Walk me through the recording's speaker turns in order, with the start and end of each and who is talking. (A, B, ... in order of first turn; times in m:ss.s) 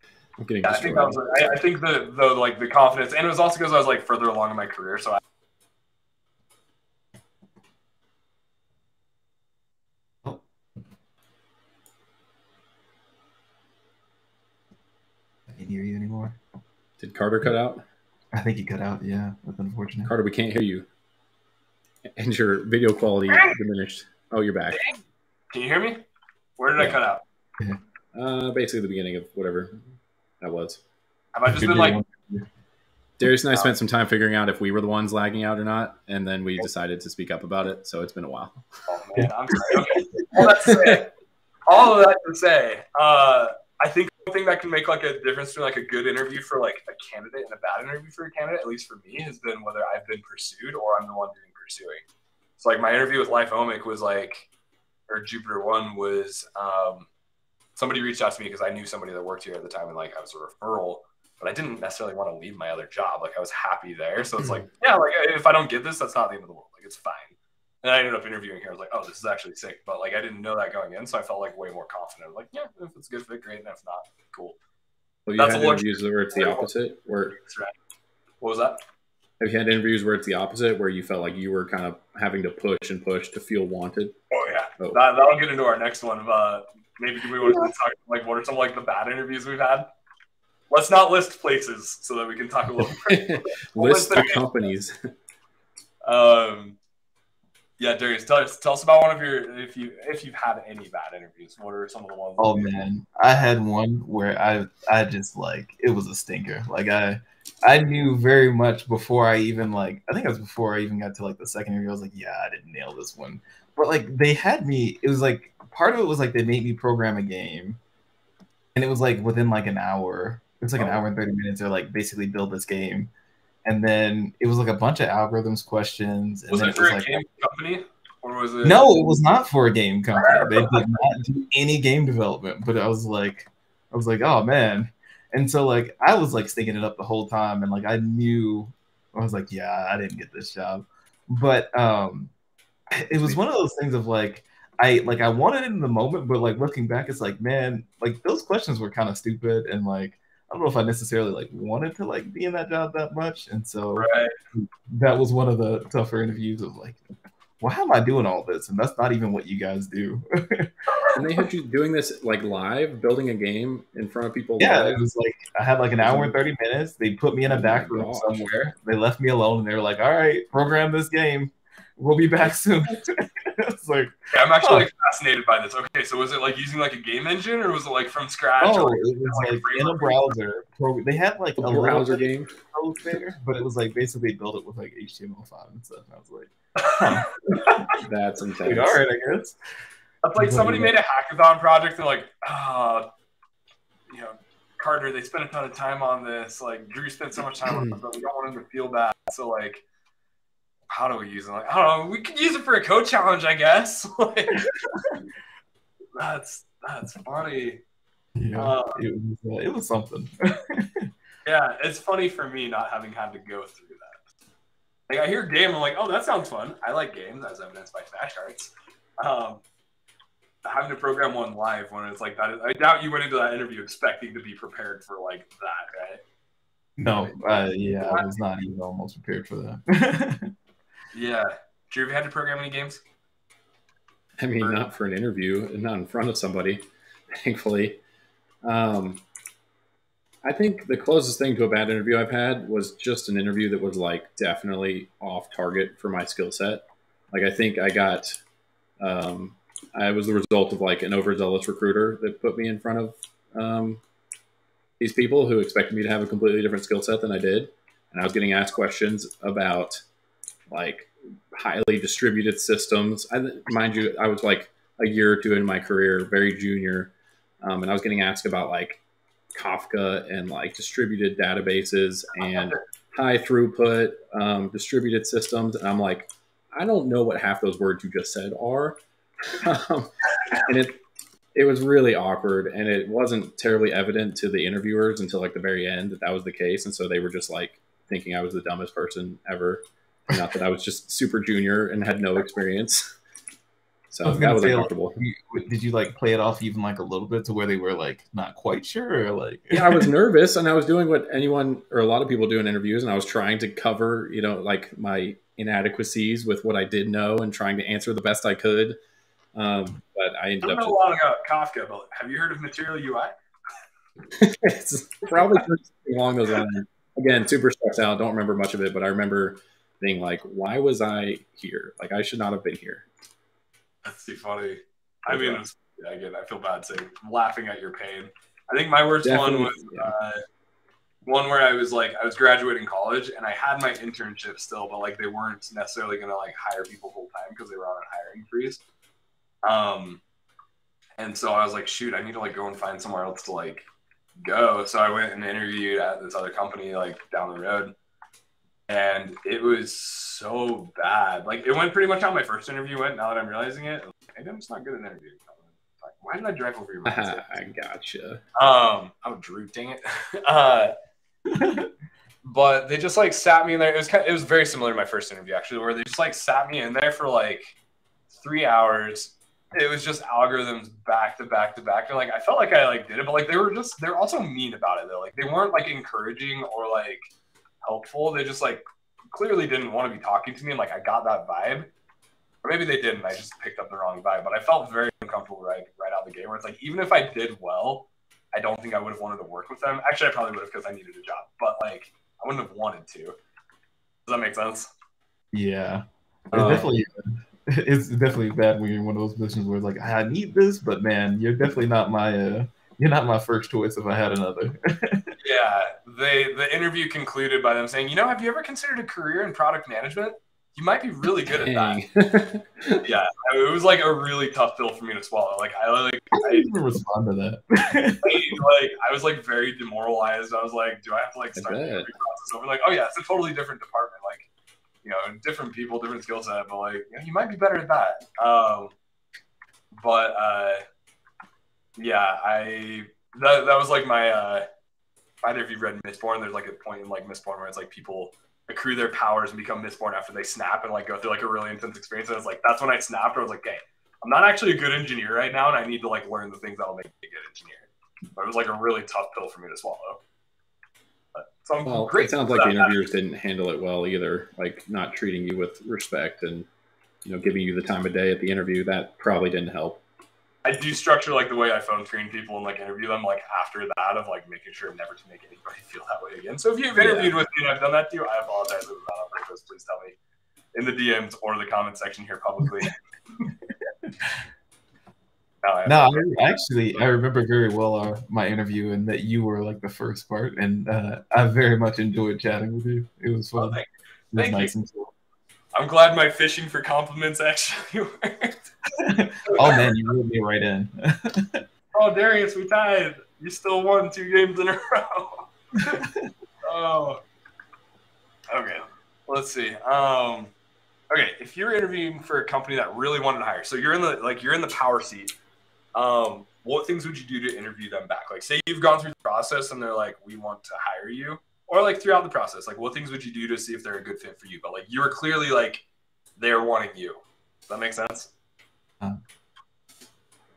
0:00.4-0:01.2 A
0:00.6-0:05.2 B
0:15.5-0:16.4 C
0:17.0-0:17.8 A
0:18.3-0:20.1 C
0:20.1-0:20.9 A
0:22.2-0:24.8 A
0:25.5-0:26.0 B
0:26.6-0:27.2 B
0:28.1-0:29.8 A
0:30.4-0:30.8 A
0:31.3-0:32.0 B
0:31.5-0:32.5 C
0:33.2-0:38.7 A
0:38.9-0:41.1 B
0:39.2-0:40.5 C
0:40.7-0:41.0 A
0:41.7-0:52.0 B
0:52.6-0:54.5 B
0:55.1-0:57.1 B
0:57.8-1:14.6 B
1:15.3-1:17.4 A
1:15.4-1:17.7 B
1:18.4-1:18.8 B
1:19.4-1:24.2 A
1:24.3-1:29.9 B
1:30.7-1:34.5 B
1:32.8-1:35.0 A
1:36.1-1:36.8 B
1:37.8-1:42.8 B
1:42.4-1:57.8 C
1:58.8-2:03.1 C
2:03.6-2:07.2 C
2:06.5-2:09.0 B
2:08.6-2:22.3 C
2:10.2-2:10.9 B
2:22.9-2:37.0 C
2:34.0-2:34.4 B
2:37.6-2:40.7 C
2:41.2-2:45.0 A
2:44.6-2:54.9 C
2:46.0-2:46.3 A
2:47.5-2:48.5 A
2:54.3-3:00.3 B
2:58.6-3:07.9 C
3:01.6-3:02.5 A
3:06.8-3:07.8 B
3:08.0-3:09.0 A
3:08.6-3:09.6 C
3:10.2-3:13.1 B
3:10.4-3:10.9 C
3:14.1-3:19.8 B
3:17.7-3:18.0 A
3:20.9-3:24.7 B
3:26.2-3:27.8 B
3:28.4-3:31.1 C
3:28.6-3:29.0 B
3:31.4-3:34.2 B
3:35.1-3:39.6 B
3:40.6-3:46.2 B
3:47.0-3:50.5 C
3:47.2-3:48.3 B
3:51.1-3:53.0 B
3:54.4-3:58.0 A
3:54.6-3:54.9 B
3:58.6-3:59.2 A
4:00.4-4:08.4 A
4:09.0-4:14.0 A
4:15.0-4:20.0 A
4:20.7-4:29.0 A
4:29.6-4:41.0 A
4:32.4-4:32.8 B
4:41.5-4:53.1 A
4:54.1-4:55.2 A
4:54.2-5:00.1 C
4:59.7-5:09.0 A
5:09.6-5:11.2 A
5:10.6-5:13.4 B
5:14.4-5:23.0 A
5:24.0-5:30.4 B
5:25.3-5:25.6 A
5:29.2-5:30.1 A
5:31.3-5:38.8 B
5:39.6-5:40.2 B
5:41.2-5:43.9 B
5:44.4-5:47.9 B
5:48.9-5:57.5 B
5:57.0-5:58.4 A
5:58.6-6:00.9 B
6:01.5-6:01.9 C
6:02.4-6:07.8 B
6:08.3-6:17.3 B
6:17.8-6:21.9 B
6:22.6-6:33.4 B
6:34.3-6:34.9 B
6:35.5-6:45.4 C
6:36.5-6:36.9 B
6:45.4-6:52.0 B
6:51.5-6:53.0 A
6:53.0-6:56.7 B
6:56.4-6:58.6 C
6:58.2-7:04.5 B
7:01.6-7:02.1 A
7:05.0-7:08.9 B
7:10.0-7:10.8 B
7:12.0-7:14.7 B
7:15.4-7:30.2 B
7:31.4-7:32.9 B
7:31.8-7:36.7 A
7:37.2-7:40.0 A
7:40.6-7:50.2 B
7:47.0-7:47.3 A
7:50.7-7:53.0 B
7:53.9-7:54.3 C
7:55.6-7:56.6 B
7:55.9-8:03.8 C
8:03.6-8:04.7 B
8:04.3-8:05.1 C
8:05.8-8:08.7 B
8:09.0-8:11.6 C
8:09.5-8:09.9 B
8:11.9-8:16.0 B
8:15.8-8:16.3 C
8:16.6-8:17.2 B
8:18.5-8:20.5 B
8:21.1-8:25.3 B
8:26.0-8:35.8 B
8:36.4-8:38.3 B